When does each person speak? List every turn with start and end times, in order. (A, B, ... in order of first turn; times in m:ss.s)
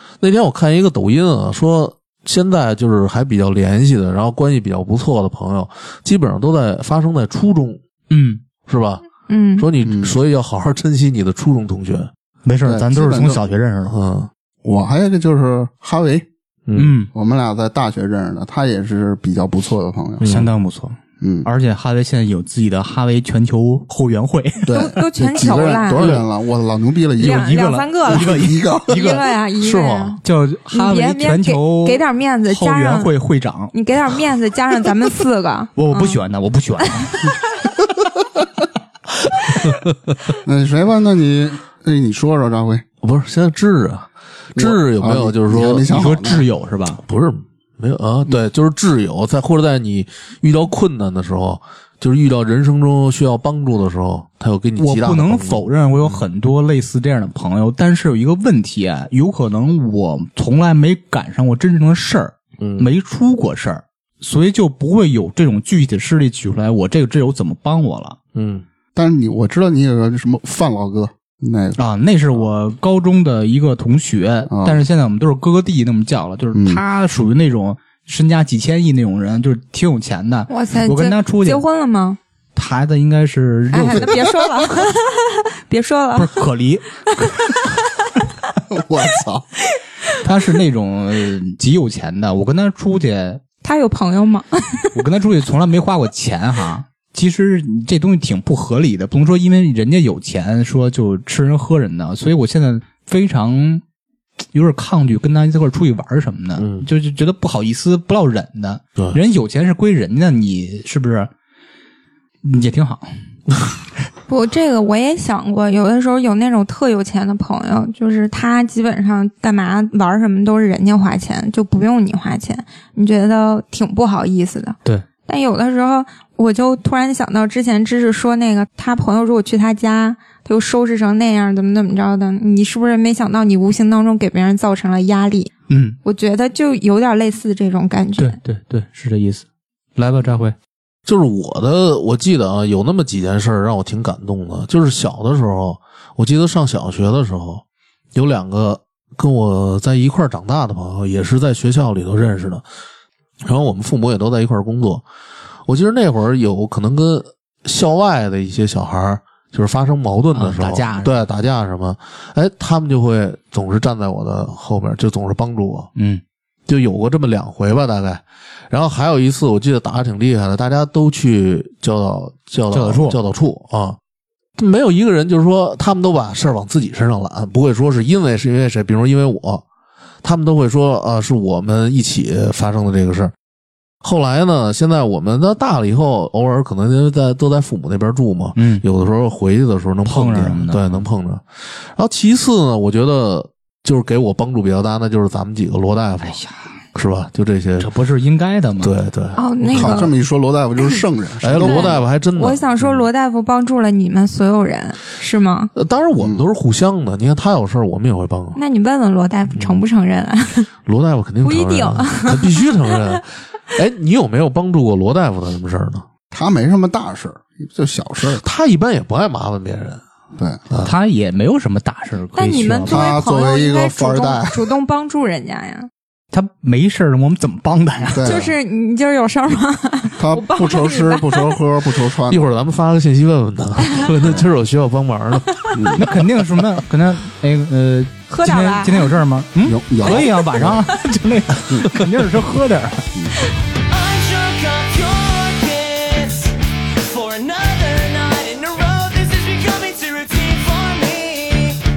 0:00.2-0:07.8 A
0:08.1-0:08.4 B
0:08.6-0:09.0 A
0:09.3-0:09.7 C
0:09.6-0:12.1 A
0:09.8-0:10.2 D
0:12.4-0:14.0 B
0:12.6-0:13.4 D
0:13.9-0:14.3 A
0:14.6-0:16.2 D
0:16.7-0:16.9 A
0:16.8-0:17.1 B
0:17.1-0:20.3 D
0:20.2-0:20.5 A
0:20.2-0:24.8 B
0:21.2-0:21.5 D
0:24.6-0:29.1 D
0:24.7-0:26.1 C
0:27.2-0:33.1 C
0:27.2-0:29.2 B
0:29.6-0:30.2 A
0:30.2-0:33.7 B
0:33.7-0:36.2 C
0:35.8-0:37.2 B
0:36.8-0:37.3 C
0:40.4-0:42.8 D
0:43.0-0:45.9 A
0:44.5-0:46.4 D
0:45.9-0:47.0 B
0:47.1-0:56.2 A
0:54.8-1:08.2 B
1:02.6-1:02.9 A
1:08.3-1:08.6 A
1:08.9-1:11.8 D
1:11.8-1:21.6 B
1:14.5-1:14.8 D
1:16.5-1:16.8 D
1:20.5-1:22.2 C
1:22.5-1:24.2 B
1:23.7-1:26.4 C
1:23.8-1:24.4 D
1:26.2-1:27.5 B
1:28.7-1:29.4 D
1:30.2-1:33.4 B
1:33.6-1:34.9 C
1:34.9-1:43.8 B
1:44.5-1:51.3 B
1:46.6-1:46.8 A
1:52.4-1:53.1 B
1:54.3-2:15.5 C
2:15.7-2:16.0 B
2:16.0-2:18.4 C
2:18.2-2:19.4 B
2:20.0-2:20.5 B
2:21.0-2:27.6 A
2:28.1-2:32.6 A
2:33.4-2:35.0 A
2:35.7-2:45.9 A
2:40.3-2:41.2 B
2:46.0-2:46.2 B
2:46.7-2:54.0 A
2:52.7-2:53.2 B
2:54.6-2:59.6 A
3:00.2-3:03.3 A
3:04.0-3:16.4 A
3:08.6-3:08.8 B
3:10.0-3:11.0 B
3:16.2-3:16.7 B
3:16.9-3:17.9 A
3:17.8-3:18.9 B
3:18.8-3:20.1 A
3:19.3-3:20.1 C
3:19.6-3:22.0 D
3:21.4-3:23.1 A
3:21.6-3:25.7 C
3:25.8-3:28.6 A
3:26.2-3:26.4 D
3:28.6-3:30.7 C
3:29.5-3:29.8 A
3:30.8-3:36.0 A
3:31.4-3:33.2 C
3:36.3-3:38.4 D
3:38.2-3:40.0 A
3:40.4-3:40.6 D
3:40.8-3:43.0 B
3:42.4-3:45.9 C
3:42.9-3:44.7 D
3:46.3-3:48.4 B
3:48.1-3:48.5 D
3:48.2-3:51.6 C
3:50.2-3:52.4 D
3:52.3-3:56.0 A
3:55.7-3:56.0 D
3:56.0-4:03.1 B
3:58.3-3:59.2 C
3:59.6-4:00.8 D
4:03.8-4:11.8 E